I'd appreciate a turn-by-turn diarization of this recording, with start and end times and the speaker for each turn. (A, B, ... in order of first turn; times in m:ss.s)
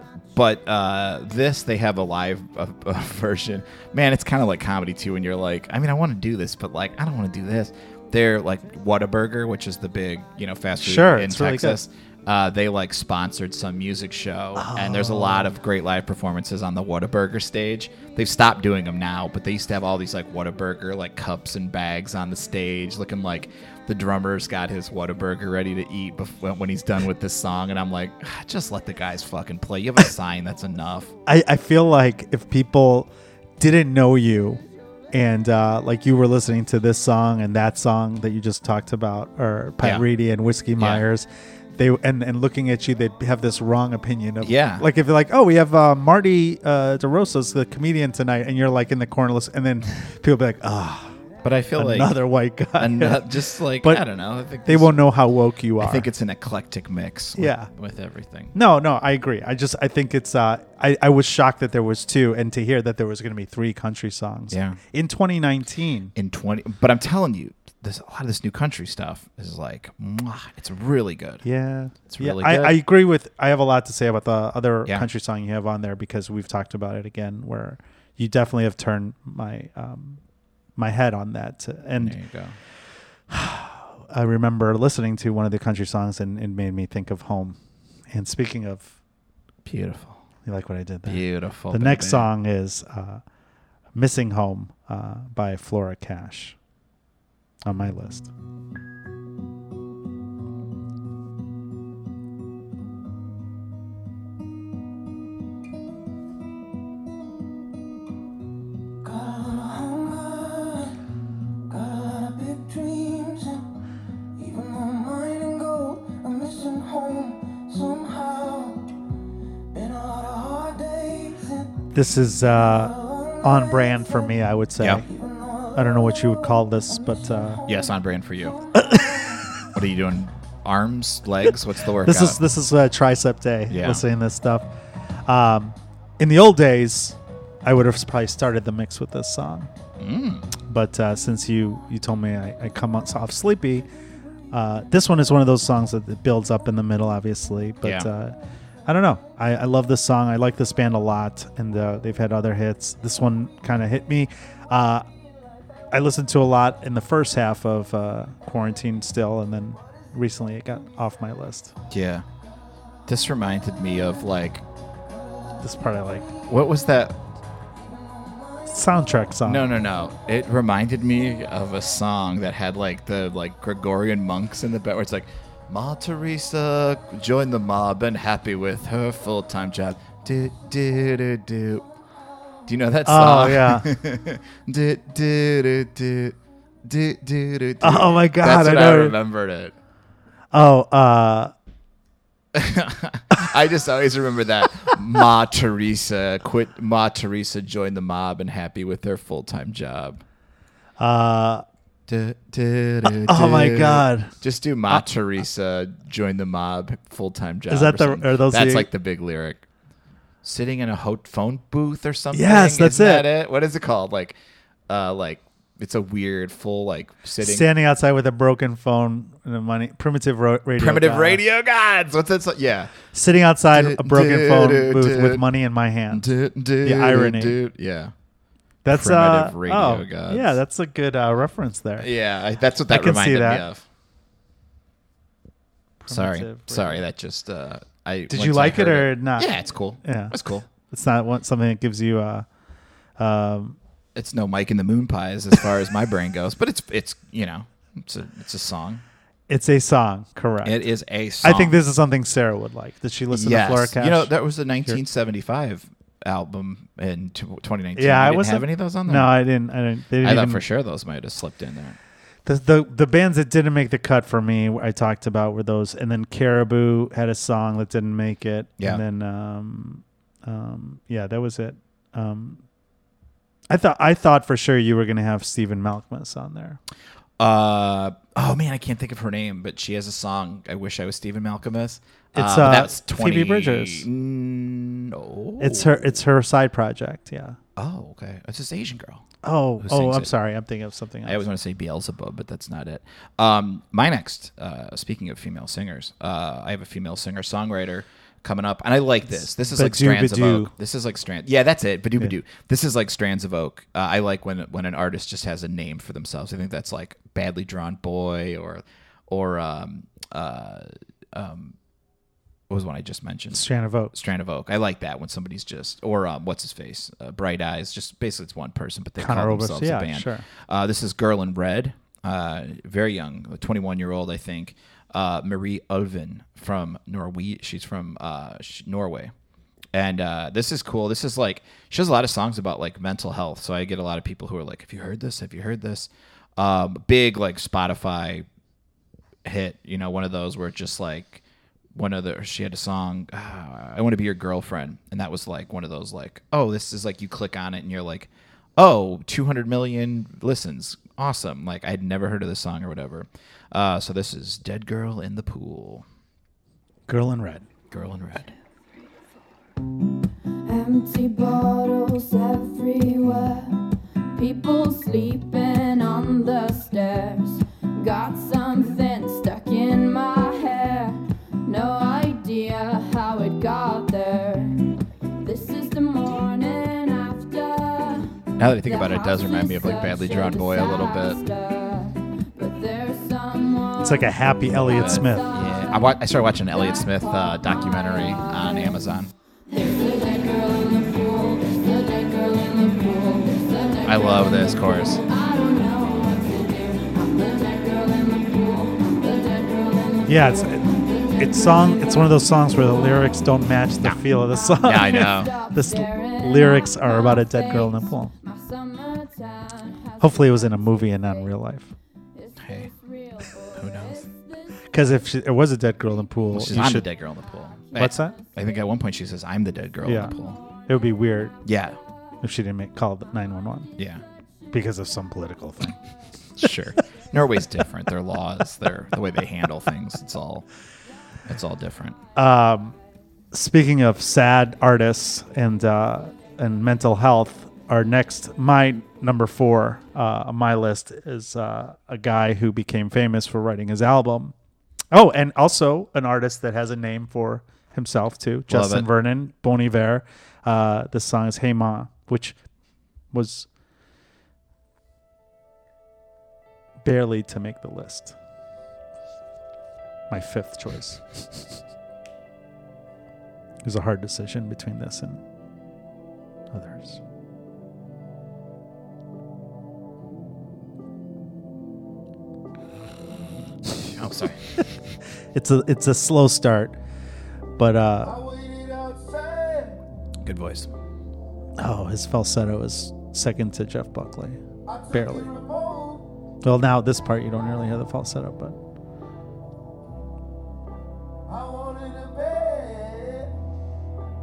0:00.3-0:31.1 A
0:10.8-0:11.8 B
0:14.6-0:15.5 B
0:31.3-0:51.2 B
0:40.8-0:41.0 A
0:44.4-0:44.8 A
0:51.4-0:52.1 A
0:51.8-0:54.0 B
0:52.8-0:55.0 A
0:54.6-0:56.1 B
0:55.8-0:58.5 A
0:57.4-0:57.7 B
0:58.5-1:06.1 B
1:04.5-1:04.8 A
1:06.2-1:11.4 A
1:11.4-1:20.2 B
1:12.1-1:12.8 A
1:20.8-1:22.2 B
1:22.0-1:22.6 A
1:23.3-1:27.6 B
1:28.1-1:28.9 B
1:29.6-1:30.2 A
1:30.4-1:33.2 B
1:31.1-1:32.3 A
1:34.0-1:36.6 B
1:37.6-1:38.3 B
1:49.0-1:51.0 C
1:51.7-1:53.7 C
1:54.4-1:59.0 C
1:59.7-2:01.8 C
2:01.9-2:05.1 B
2:02.7-2:03.8 C
2:05.0-2:05.8 C
2:05.8-2:07.6 B
2:07.1-2:07.9 C
2:07.7-2:08.6 A
2:08.8-2:09.3 B
2:09.7-2:12.4 A
2:12.0-2:14.7 B
2:13.7-2:14.0 A
2:15.3-2:19.7 B
2:20.0-2:20.5 A
2:20.7-2:23.9 B
2:24.5-2:35.1 B
2:27.8-2:28.1 A
2:35.9-2:41.8 B
2:41.9-2:42.3 A
2:43.1-2:44.6 A
2:45.6-2:46.3 B
2:46.5-2:47.2 A
2:47.8-2:48.7 C
2:48.7-2:49.7 B
2:49.4-3:01.9 A
3:02.7-3:09.7 A
3:03.0-3:03.9 B
3:07.8-3:09.2 B
3:10.5-3:11.5 B
3:12.5-3:20.2 A
3:21.0-3:21.6 B
3:22.1-3:29.7 A
3:23.0-3:24.3 B
3:27.7-3:28.9 B
3:30.4-3:34.4 A
3:32.3-3:33.3 B
3:34.9-3:37.7 A
3:37.4-3:41.4 B
3:40.8-3:42.9 A
3:43.1-3:46.3 B
3:43.7-3:45.4 A
3:46.1-3:48.1 A
3:46.8-3:47.6 B
3:48.8-3:52.1 B
3:48.9-3:50.6 A
3:52.0-3:53.8 A
3:52.9-3:53.7 B
3:56.0-3:57.0 B
3:56.1-4:00.7 A
3:58.3-3:59.5 B
4:00.0-4:02.5 B
4:03.2-4:03.8 B
4:04.2-4:09.0 A
4:09.5-4:10.8 B
4:10.6-4:11.8 A
4:11.4-4:14.3 B
4:13.3-4:19.3 A
4:18.0-4:20.6 B
4:20.2-4:22.0 A
4:22.4-4:32.6 B
4:33.7-4:36.8 B
4:37.4-4:46.0 A
4:42.4-4:44.1 B
4:45.6-4:47.6 B
4:47.8-4:49.3 A
4:49.4-4:51.4 B
4:49.8-4:50.3 A
4:51.3-5:11.8 A
4:59.4-5:00.7 B
5:12.7-5:29.3 A
5:13.5-5:14.1 B
5:19.2-5:20.4 B
5:29.9-5:38.5 A
5:39.4-5:41.4 A
5:41.9-5:56.1 A
5:57.1-5:57.7 B
5:57.9-5:58.5 A
6:00.7-6:26.0 D
6:18.6-6:21.4 A
6:24.0-6:25.5 B
6:24.8-6:29.3 A
6:26.9-6:28.8 D
6:29.7-6:42.3 D
6:34.0-6:35.2 A
6:40.3-6:48.3 B
6:44.4-6:51.5 D
6:44.8-6:45.5 A
6:50.2-6:51.9 B
6:52.4-6:54.8 D
6:52.6-6:52.9 A
6:53.8-6:54.3 A
6:54.9-6:57.1 B
6:56.5-7:00.6 A
6:58.0-6:58.4 B
7:00.0-7:00.4 B
7:00.9-7:01.6 B
7:01.6-7:02.0 A
7:02.4-7:03.9 B
7:04.0-7:04.2 A
7:04.7-7:06.0 B
7:06.6-7:10.7 A
7:11.5-7:12.2 A
7:12.4-7:13.0 B
7:13.5-7:24.5 B
7:25.1-7:32.6 B
7:28.7-7:29.1 A
7:33.3-7:33.7 B
7:37.0-7:38.4 B
7:40.3-7:41.4 B
7:43.8-7:45.4 B
7:46.7-7:47.2 B
7:54.1-7:54.6 A
7:55.5-7:57.0 B
7:57.8-7:58.4 B
7:59.1-7:59.8 C
8:00.4-8:00.9 A
8:01.8-8:05.5 B
8:06.6-8:08.8 B
8:12.1-8:13.4 C